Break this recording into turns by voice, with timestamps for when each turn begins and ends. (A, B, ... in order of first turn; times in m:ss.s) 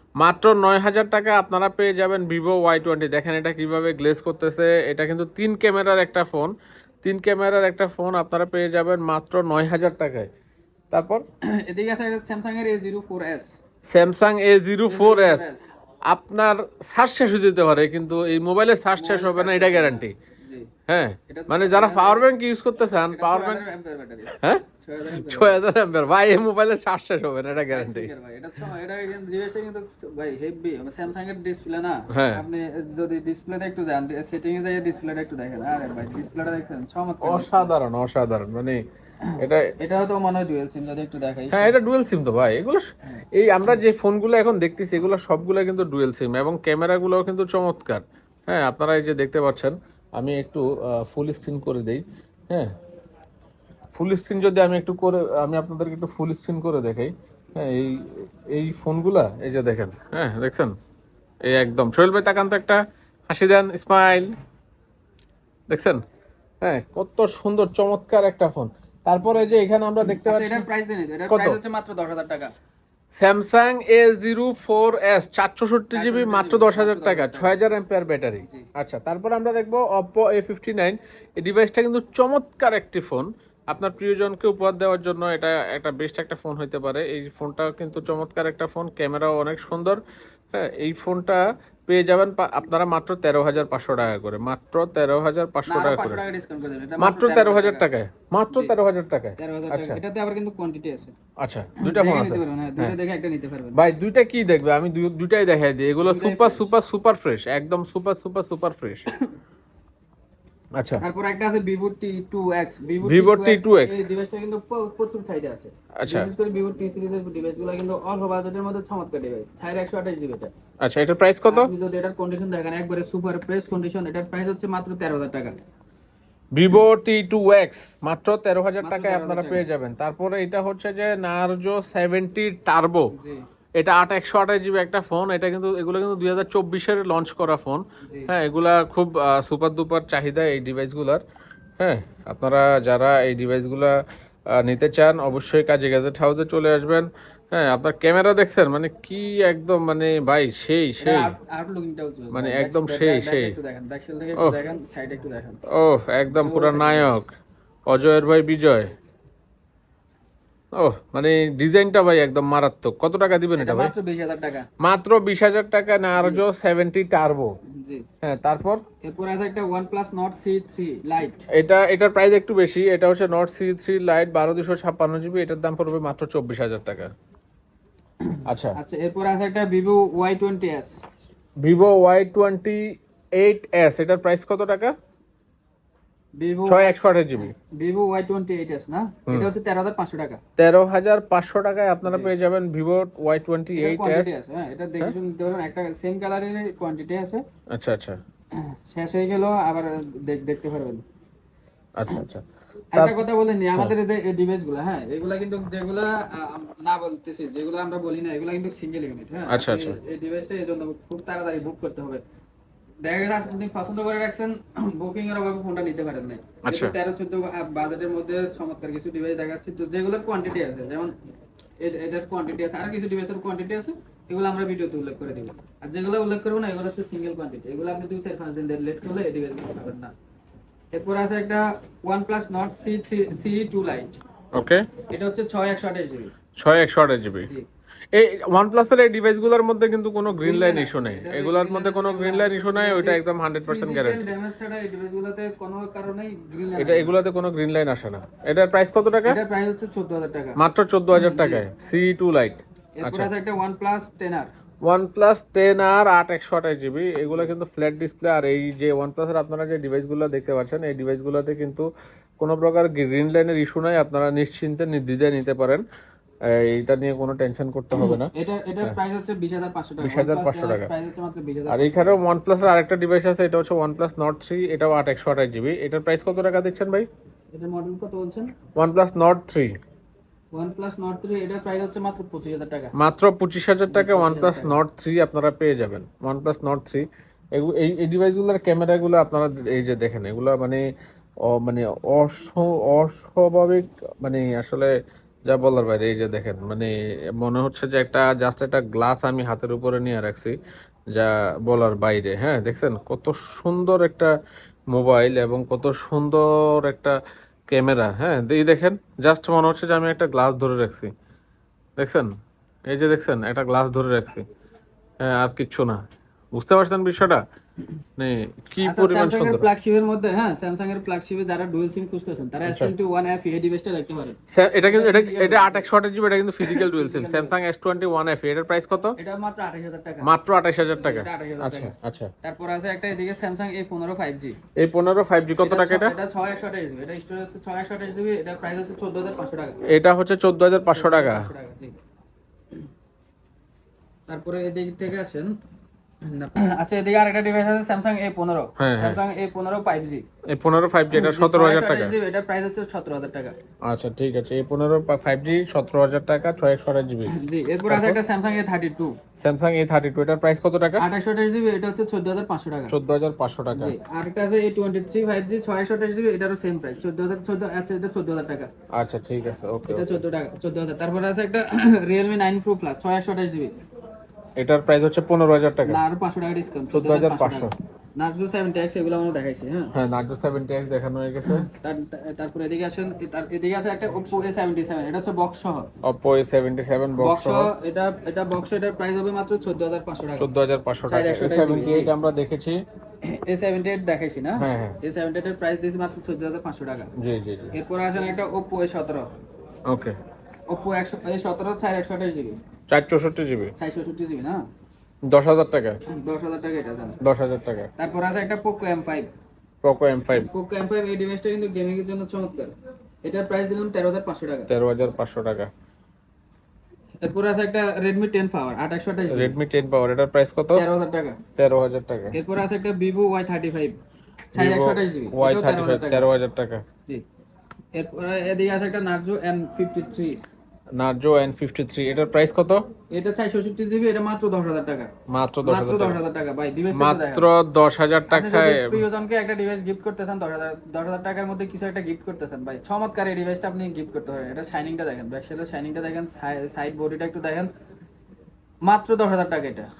0:00.2-0:06.5 A
0:07.0-0:10.3 A
0:10.9-0:11.2 A
0:11.4-0:13.5 B
0:13.9-0:15.5 A
0:14.9-0:15.7 B
0:16.1-0:20.1 A
0:18.9-0:20.7 B
0:20.9-0:23.6 A
0:21.3-0:22.3 B
0:23.1-0:25.6 B
0:24.3-0:28.1 A
0:27.6-0:37.7 B
0:32.1-0:32.4 A
0:37.2-0:38.8 A
0:39.2-0:41.7 B
0:39.4-0:39.7 A
0:41.5-0:52.7 A
0:43.1-0:43.8 B
0:53.9-1:00.7 A
1:01.4-1:04.4 A
1:05.7-1:06.0 A
1:06.6-1:10.7 A
1:10.1-1:12.5 B
1:11.3-1:11.6 A
1:13.2-1:30.0 A
1:15.9-1:17.6 B
1:30.5-1:36.2 A
1:35.7-1:37.9 B
1:37.0-1:40.0 A
1:39.4-1:41.1 B
1:41.4-1:43.0 A
1:41.8-1:43.8 B
1:43.7-1:49.1 A
1:46.0-1:46.7 B
1:50.8-1:51.0 A
1:51.0-2:00.5 B
1:53.0-1:54.1 A
1:56.0-1:56.3 A
2:00.8-2:01.7 A
2:01.5-2:05.6 B
2:06.5-2:13.1 A
2:08.8-2:09.6 B
2:13.1-2:13.4 B
2:13.8-2:21.2 A
2:18.0-2:18.3 B
2:21.8-2:24.0 A
2:24.5-2:31.3 A
2:31.0-2:35.6 B
2:32.3-2:33.6 A
2:35.7-2:37.3 A
2:36.3-2:37.2 B
2:37.9-2:38.9 A
2:40.7-2:43.9 A
2:43.6-2:44.7 B
2:44.8-2:47.5 A
2:46.2-2:46.4 B
2:47.7-2:48.1 B
2:48.2-2:48.8 A
2:49.0-2:51.4 B
2:51.5-2:57.1 A
2:58.2-3:01.0 B
2:58.4-2:58.8 A
3:01.6-3:02.8 A
3:03.4-3:04.9 A
3:06.4-3:07.0 B
3:06.7-3:07.5 A
3:07.8-3:10.4 B
3:10.6-3:14.3 A
3:12.0-3:12.3 B
3:13.7-3:17.4 B
3:17.7-3:18.2 A
3:18.5-3:21.0 B
3:22.0-3:23.2 A
3:22.9-3:32.2 B
3:29.5-3:30.0 A
3:33.0-3:41.1 B
3:36.6-3:36.9 A
3:41.8-3:50.1 B
3:50.9-3:54.2 B
3:54.5-3:55.0 A
3:55.1-3:56.3 B
3:56.6-3:57.5 A
3:58.1-4:04.2 A
4:00.3-4:07.2 B
4:06.8-4:09.4 A
4:09.2-4:10.6 B
4:10.6-4:13.3 A
4:11.1-4:11.6 B
4:13.0-4:14.5 B
4:14.8-4:21.9 A
4:22.4-4:25.8 A
4:26.5-4:28.3 A
4:28.0-4:32.2 B
4:30.0-4:30.9 A
4:31.7-4:37.1 A
4:37.5-4:38.5 B
4:38.7-4:39.7 A
4:40.5-4:42.9 B
4:42.9-4:50.8 A
4:43.9-4:44.8 B
4:51.4-4:54.9 A
4:55.5-5:00.6 A
5:01.1-5:04.3 A
5:04.9-5:07.2 A
5:07.7-5:11.1 A
5:12.0-5:12.3 A
5:12.9-5:14.4 A
5:15.2-5:16.0 A
5:16.5-5:17.4 A
5:18.2-5:19.7 A
5:18.8-5:25.9 B
5:22.6-5:22.9 A
5:24.5-5:29.2 A
5:26.6-5:27.5 B
5:29.2-5:30.3 B
5:30.2-5:32.3 A
5:30.9-5:34.6 B
5:34.8-5:36.1 A
5:35.6-5:39.8 B
5:39.9-5:41.5 A
5:40.9-5:42.0 B
5:44.3-5:45.5 B
5:46.2-5:50.2 B
5:48.8-5:49.2 A
5:50.5-5:52.1 A
5:51.1-5:53.6 B
5:53.8-5:57.3 A
5:57.3-5:59.2 B
5:57.9-5:58.2 A
5:59.4-6:01.0 A
6:01.0-6:02.9 B
6:02.9-6:03.9 A
6:03.7-6:08.7 B
6:08.9-6:10.2 A
6:09.8-6:13.7 B
6:14.6-6:16.0 A
6:15.8-6:19.9 B
6:16.9-6:17.7 A
6:19.9-6:21.7 A
6:21.4-6:25.9 B
6:26.0-6:27.7 A
6:27.2-6:30.5 B
6:30.4-6:32.8 A
6:31.0-6:32.1 B
6:33.2-6:37.1 B
6:34.6-6:35.0 A
6:37.2-6:37.7 A
6:37.7-6:39.3 B
6:39.9-6:40.2 A
6:40.7-6:42.6 B
6:42.9-6:43.7 A
6:43.8-6:44.6 B
6:45.3-6:46.0 A
6:46.1-6:47.2 B
6:47.2-6:47.9 A
6:48.0-6:49.3 B
6:49.8-6:50.5 A
6:50.4-6:52.7 B
6:53.2-6:54.7 B
6:54.7-6:55.7 A
6:57.2-6:59.6 B
6:59.3-7:00.8 A
7:00.7-7:01.4 B
7:01.5-7:02.4 A
7:02.3-7:04.0 B
7:04.5-7:06.2 B
7:04.6-7:06.8 A
7:07.9-7:10.4 B
7:11.0-7:12.8 A
7:13.1-7:15.1 B
7:15.3-7:16.2 A
7:15.6-7:17.5 B
7:16.9-7:19.0 A
7:18.3-7:27.7 B
7:28.9-7:29.9 B